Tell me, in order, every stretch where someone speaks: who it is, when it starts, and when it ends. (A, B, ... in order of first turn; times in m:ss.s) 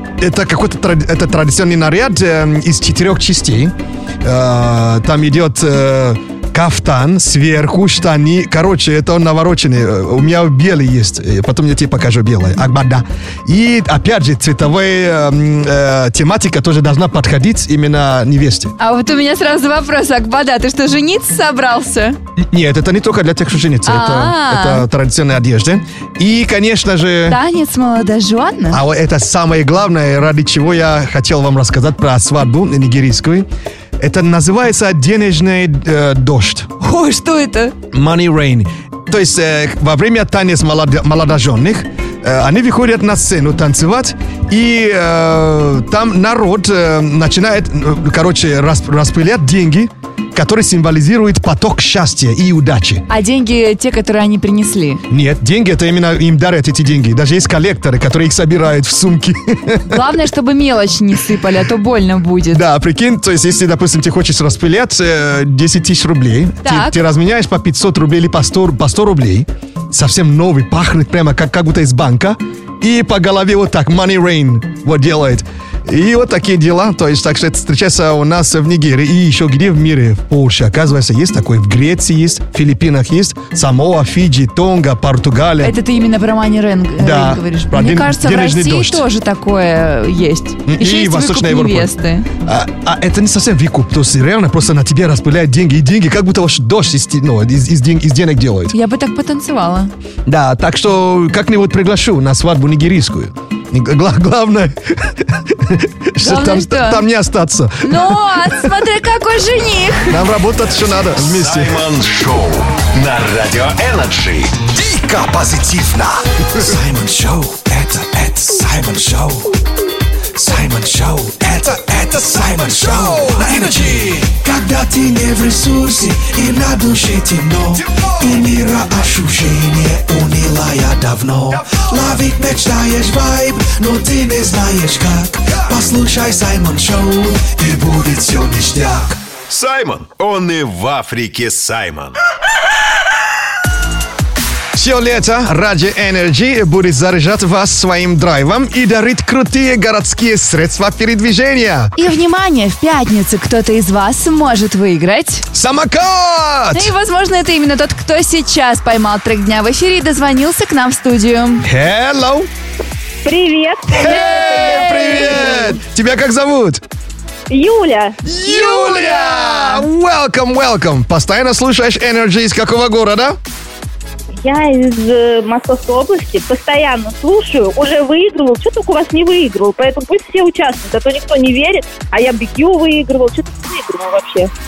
0:00.2-0:18.8 A
0:18.8-0:22.2 B
0:22.4-0:27.4 A
0:23.9-0:24.9 B
0:27.3-0:28.8 B
0:28.7-0:33.5 A
0:34.0-0:36.7 A
0:36.8-0:37.8 B
0:37.9-0:53.0 A
0:53.1-0:55.0 B
0:55.1-1:00.0 A
0:59.9-1:02.6 B
1:02.5-1:25.8 A
1:06.6-1:07.0 B
1:25.6-1:32.3 B
1:27.0-1:29.0 A
1:30.7-1:31.9 A
1:32.4-1:38.8 A
1:38.7-1:39.9 B
1:40.3-1:48.6 A
1:46.2-1:47.0 B
1:47.8-1:50.2 B
1:50.1-1:51.8 A
1:51.2-1:54.7 C
1:54.7-1:59.5 D
2:00.3-2:19.2 D
2:02.8-2:04.1 A
2:19.5-2:22.2 C
2:24.8-2:31.9 A
2:32.0-2:35.4 B
2:35.5-2:36.9 A
2:36.7-2:41.6 B
2:41.6-2:42.5 A
2:43.2-2:45.7 E
2:43.9-2:46.8 A
2:44.4-2:45.6 B
2:47.5-2:48.2 E
2:48.2-2:53.4 A
2:48.4-2:49.9 B
2:54.4-3:04.5 E